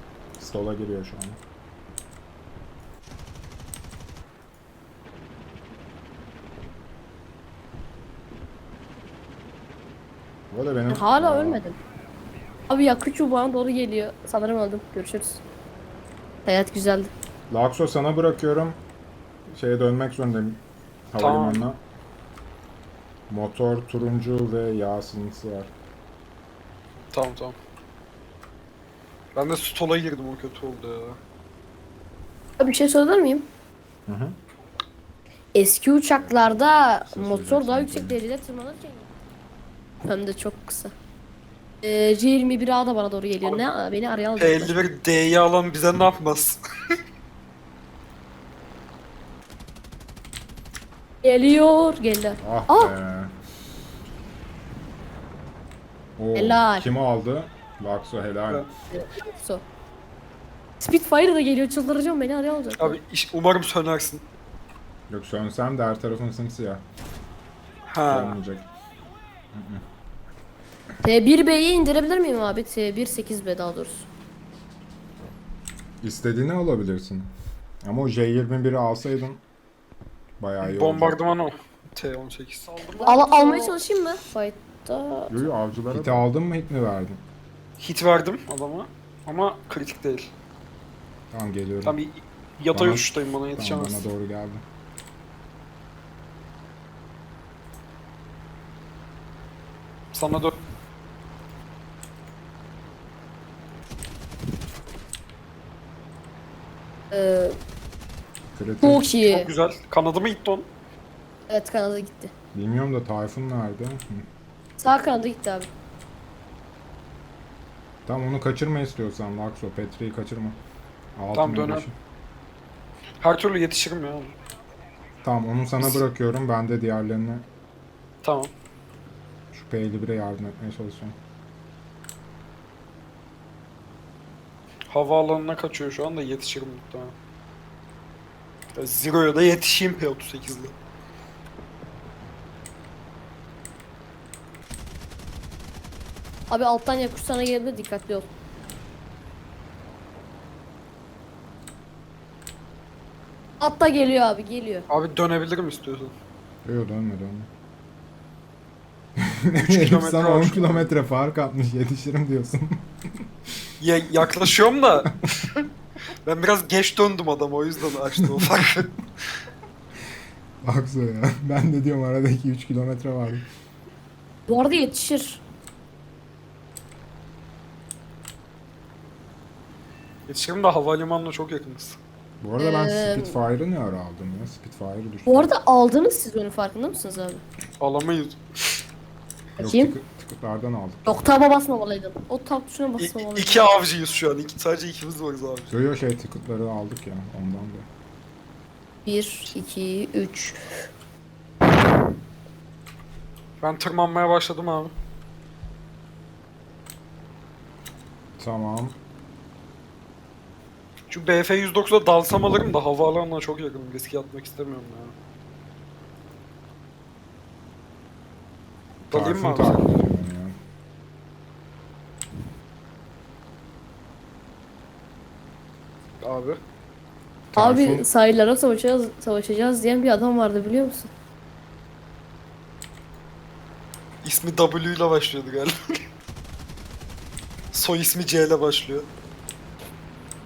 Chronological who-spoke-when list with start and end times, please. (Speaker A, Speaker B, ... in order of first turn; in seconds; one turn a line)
Speaker A: 0.4-1.4
Speaker A: 10.5-11.6
Speaker B: 10.9-11.8
Speaker B: 12.7-15.4
Speaker B: 16.5-17.1
Speaker A: 17.5-18.8
Speaker A: 19.5-21.8
Speaker C: 21.2-21.7
Speaker A: 23.3-25.7
Speaker C: 27.1-27.6
Speaker C: 29.4-31.2
Speaker B: 32.6-33.5
Speaker A: 34.1-34.4
Speaker B: 35.5-39.1
Speaker A: 36.2-38.2
Speaker B: 40.0-40.9
Speaker B: 41.8-44.8
Speaker C: 44.4-46.6
Speaker B: 51.2-52.9
Speaker A: 52.4-53.3
Speaker A: 56.2-58.7
Speaker B: 56.4-56.9
Speaker B: 58.9-59.6
Speaker B: 60.8-63.0
Speaker C: 62.8-64.2
Speaker A: 65.1-66.8
Speaker C: 67.9-68.4
Speaker A: 68.1-68.7
Speaker A: 69.5-69.8
Speaker B: 71.0-74.1
Speaker A: 76.0-79.4
Speaker A: 80.4-81.2
Speaker C: 80.6-83.8
Speaker B: 83.0-85.4
Speaker A: 85.3-87.2
Speaker C: 87.8-90.3
Speaker A: 91.3-92.0
Speaker C: 91.8-94.1
Speaker A: 92.7-94.6
Speaker C: 100.1-100.6
Speaker B: 107.1-107.5
Speaker A: 108.5-109.1
Speaker B: 108.8-109.5
Speaker C: 109.2-110.7
Speaker B: 111.5-112.3
Speaker A: 112.5-114.3
Speaker B: 114.8-115.7
Speaker A: 118.1-120.6
Speaker A: 121.2-121.9
Speaker C: 121.3-121.9
Speaker C: 123.2-124.3
Speaker A: 125.2-127.5
Speaker C: 125.8-126.0
Speaker C: 128.2-128.5
Speaker A: 129.5-131.2
Speaker C: 134.9-137.2
Speaker C: 138.8-140.8
Speaker B: 146.5-148.3
Speaker B: 153.6-154.9
Speaker C: 154.9-156.1
Speaker A: 156.7-157.5
Speaker A: 159.3-162.8
Speaker C: 159.6-160.9
Speaker C: 163.8-165.6
Speaker C: 166.2-168.9
Speaker A: 170.6-173.5
Speaker B: 174.5-175.4
Speaker C: 180.3-182.0
Speaker A: 182.4-185.5
Speaker B: 182.6-183.3
Speaker B: 185.3-187.4
Speaker C: 187.8-188.8
Speaker B: 189.6-189.9
Speaker A: 189.6-191.2
Speaker B: 191.1-193.6
Speaker C: 193.0-195.7
Speaker A: 195.7-197.9
Speaker B: 199.1-200.6
Speaker C: 203.6-204.9
Speaker A: 208.4-209.0
Speaker C: 211.1-215.2
Speaker C: 219.1-220.0
Speaker A: 219.1-220.6
Speaker C: 226.2-226.6
Speaker A: 227.5-228.1
Speaker B: 227.6-231.1
Speaker C: 234.2-235.7
Speaker C: 237.7-239.1